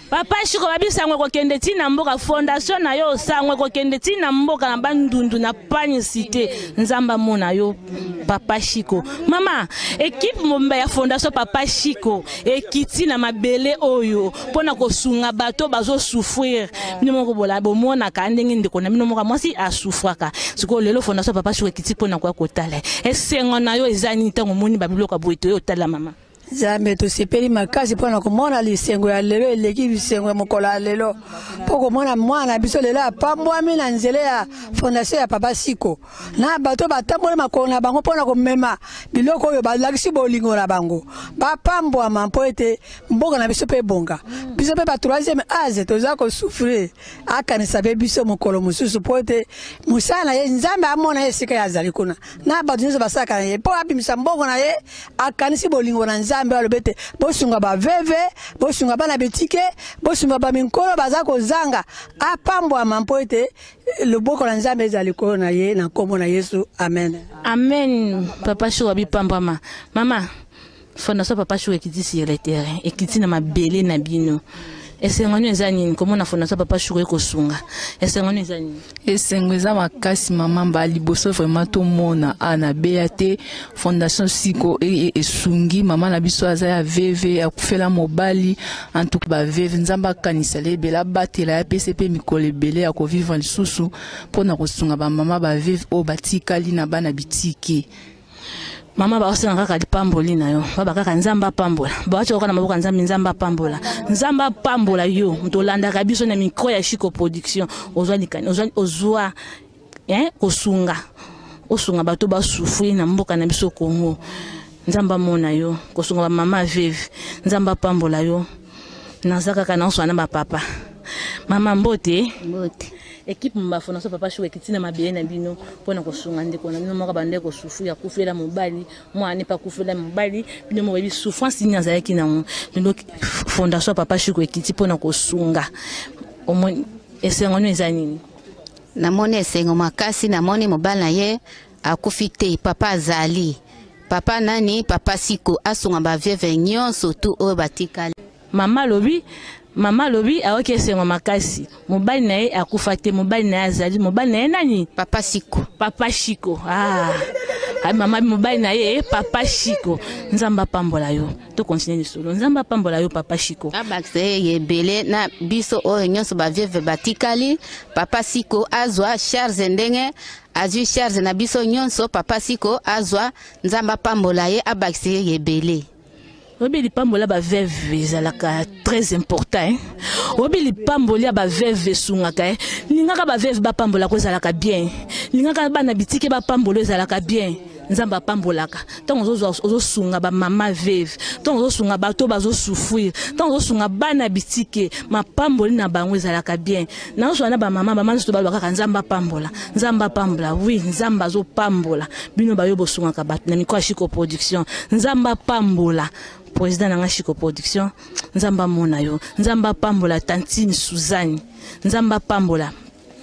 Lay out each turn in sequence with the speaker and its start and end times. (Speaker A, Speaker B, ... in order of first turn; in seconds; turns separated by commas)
Speaker A: 0.1-26.1, Speaker B: 26.5-63.5, Speaker B: 64.0-67.2, Speaker A: 67.4-70.2, Speaker A: 71.0-74.4, Speaker A: 75.0-78.8, Speaker C: 79.1-93.7, Speaker C: 94.3-96.2, Speaker A: 99.0-109.3, Speaker A: 110.1-111.0, Speaker A: 111.7-114.2, Speaker A: 114.9-118.5, Speaker A: 119.2-120.6, Speaker A: 121.5-122.3, Speaker D: 122.4-122.9, Speaker A: 123.3-135.7, Speaker A: 136.5-138.2, Speaker D: 139.0-143.6, Speaker D: 144.1-148.1, Speaker A: 148.5-149.2, Speaker A: 149.8-154.9, Speaker D: 155.0-155.7, Speaker A: 155.8-157.3, Speaker A: 157.8-163.7, Speaker D: 163.7-175.8, Speaker A: 176.6-212.7